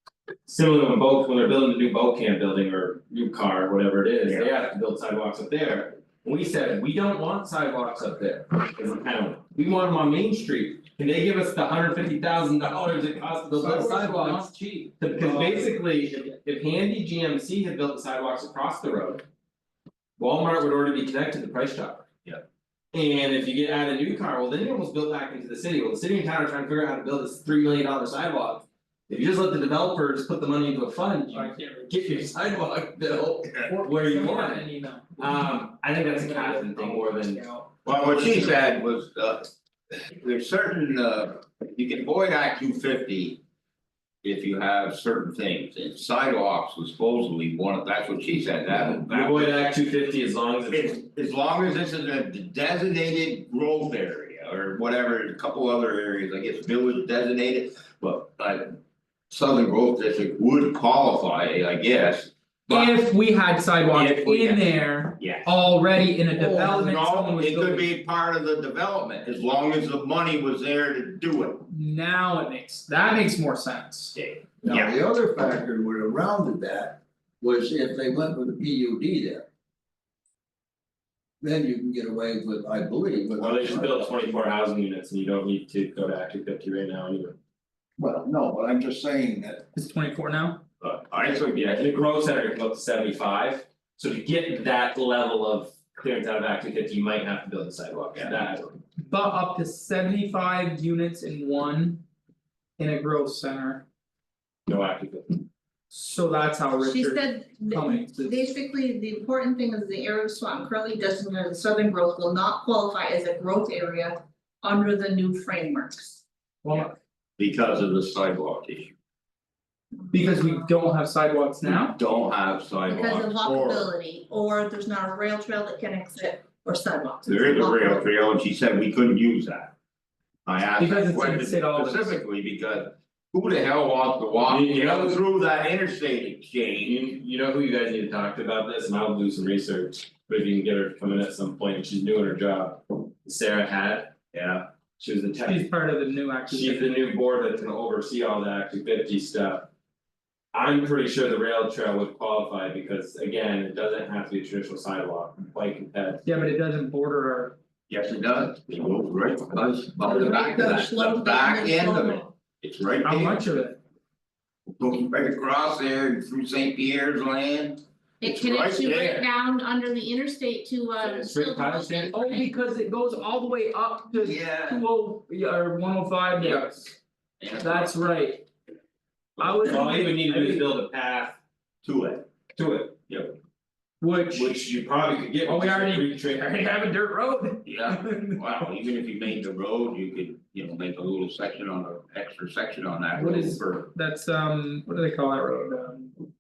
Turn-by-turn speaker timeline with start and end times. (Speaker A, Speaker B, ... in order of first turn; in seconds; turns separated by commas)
Speaker A: 0.5-19.2, Speaker B: 13.5-15.8, Speaker A: 20.2-22.1, Speaker A: 22.9-37.5, Speaker B: 31.3-32.2, Speaker B: 33.7-35.2, Speaker B: 35.9-37.7, Speaker C: 37.9-39.5, Speaker C: 40.1-43.4, Speaker C: 44.2-49.8, Speaker A: 48.9-51.0, Speaker C: 50.7-58.8, Speaker C: 59.3-62.9, Speaker B: 62.7-67.9, Speaker C: 63.9-65.6, Speaker C: 66.3-71.7, Speaker B: 71.7-74.2, Speaker C: 74.2-75.0, Speaker D: 74.6-79.5, Speaker D: 81.4-84.2, Speaker A: 83.4-87.4, Speaker D: 88.0-89.6, Speaker B: 89.8-90.6, Speaker C: 90.8-91.7, Speaker A: 91.4-98.8, Speaker B: 99.0-102.0, Speaker B: 102.8-103.8, Speaker A: 104.7-105.4, Speaker B: 105.9-108.5, Speaker E: 106.8-116.2, Speaker B: 116.6-117.0, Speaker C: 117.4-118.9, Speaker B: 120.1-122.0, Speaker C: 121.6-123.9, Speaker E: 122.9-128.1, Speaker C: 127.3-129.7, Speaker C: 130.5-137.0, Speaker B: 130.8-132.2, Speaker A: 134.4-135.2, Speaker A: 136.8-144.1, Speaker C: 144.3-144.7, Speaker A: 145.0-145.7, Speaker B: 145.4-146.9, Speaker A: 146.5-149.7, Speaker A: 150.5-156.2, Speaker B: 156.2-157.6, Speaker C: 157.9-163.4, Speaker E: 160.0-162.3, Speaker B: 163.0-163.8, Speaker C: 164.8-169.2, Speaker E: 168.2-172.5, Speaker A: 171.0-172.4, Speaker B: 172.1-176.9, Speaker C: 174.2-174.8, Speaker C: 176.4-176.8, Speaker C: 177.4-177.9, Speaker B: 177.6-178.4, Speaker B: 179.4-180.7, Speaker A: 179.4-181.4, Speaker C: 181.8-182.3, Speaker A: 182.6-183.0, Speaker C: 183.1-183.4, Speaker B: 184.0-184.6, Speaker A: 184.3-186.5, Speaker B: 185.4-188.4, Speaker C: 187.6-193.9, Speaker B: 193.2-196.1